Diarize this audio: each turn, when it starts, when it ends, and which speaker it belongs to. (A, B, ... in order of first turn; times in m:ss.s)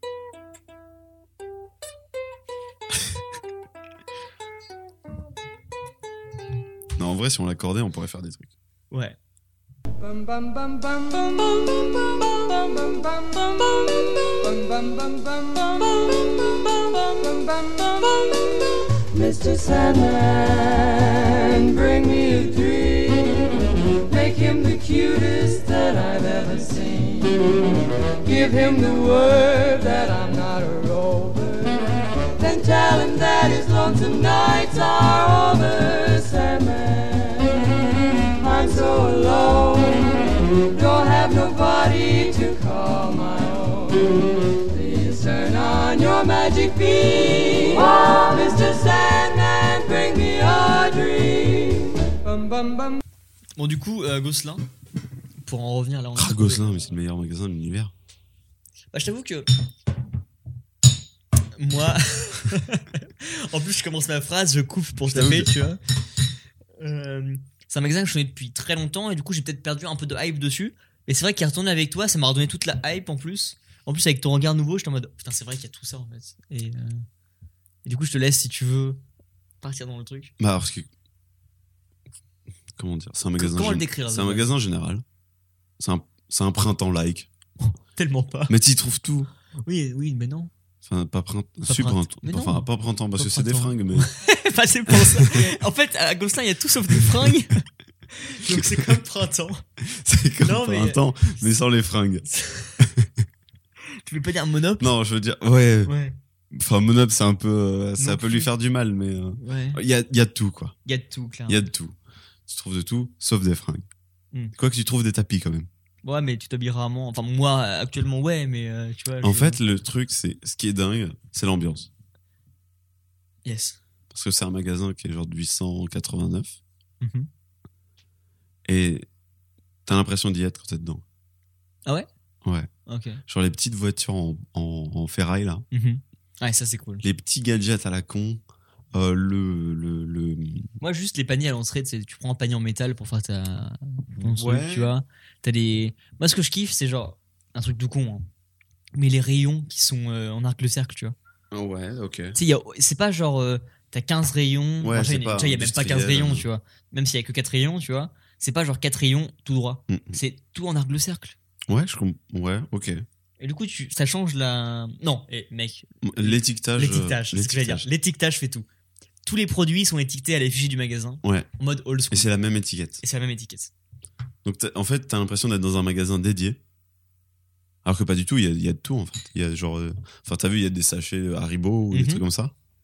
0:07.0-0:08.5 A
0:08.9-0:09.2 B
0:10.0-0:18.4 C
0:19.1-0:31.8 C
0:32.4-0:37.7 C
0:38.4-0:52.9 C
0:53.6-0:54.6 B
0:55.4-0:56.9 B
0:56.1-0:57.9 A
0:58.9-0:59.4 B
1:01.6-1:05.8 B
1:05.1-1:05.5 A
1:06.8-1:17.0 B
1:17.8-1:19.0 B
1:19.6-1:20.3 B
1:20.4-1:20.9 A
1:22.8-1:25.0 A
1:23.4-1:24.5 B
1:25.8-1:27.3 A
1:27.6-1:28.6 B
1:28.5-1:29.3 A
1:29.6-1:30.5 B
1:30.8-1:34.1 A
1:31.6-1:32.7 B
1:33.2-1:37.6 B
1:34.9-1:35.4 A
1:38.2-1:39.6 B
1:38.4-1:39.0 A
1:39.8-1:42.3 A
1:40.4-1:41.4 B
1:42.3-1:42.8 B
1:42.8-1:43.1 A
1:44.0-1:44.9 B
1:44.8-1:45.9 A
1:45.8-1:46.1 B
1:46.5-1:50.8 A
1:48.0-1:48.5 B
1:49.4-1:49.8 B
1:50.9-1:51.7 B
1:51.5-1:52.0 A
1:52.5-1:53.9 A
1:54.6-1:55.7 A
1:56.0-1:59.6 B
1:59.2-2:01.9 A
2:03.4-2:03.8 B
2:04.1-2:06.6 A
2:07.0-2:07.3 B
2:08.7-2:09.1 A
2:09.9-2:11.0 A
2:12.4-2:12.7 A
2:12.9-2:13.2 B
2:13.3-2:15.6 A
2:15.7-2:17.0 B
2:17.0-2:18.4 A
2:18.9-2:20.7 A
2:20.8-2:28.3 B
2:24.2-2:24.9 A
2:28.9-2:31.1 B
2:31.5-2:32.4 A
2:32.4-2:41.4 B
2:34.8-2:36.5 A
2:39.9-2:40.2 A
2:41.7-2:43.0 A
2:43.4-2:48.7 B
2:46.0-2:47.9 A
2:49.2-2:52.3 B
2:52.1-2:53.0 A
2:53.0-2:53.7 B
2:54.4-2:56.6 A
2:57.8-3:02.5 A
3:01.9-3:02.2 B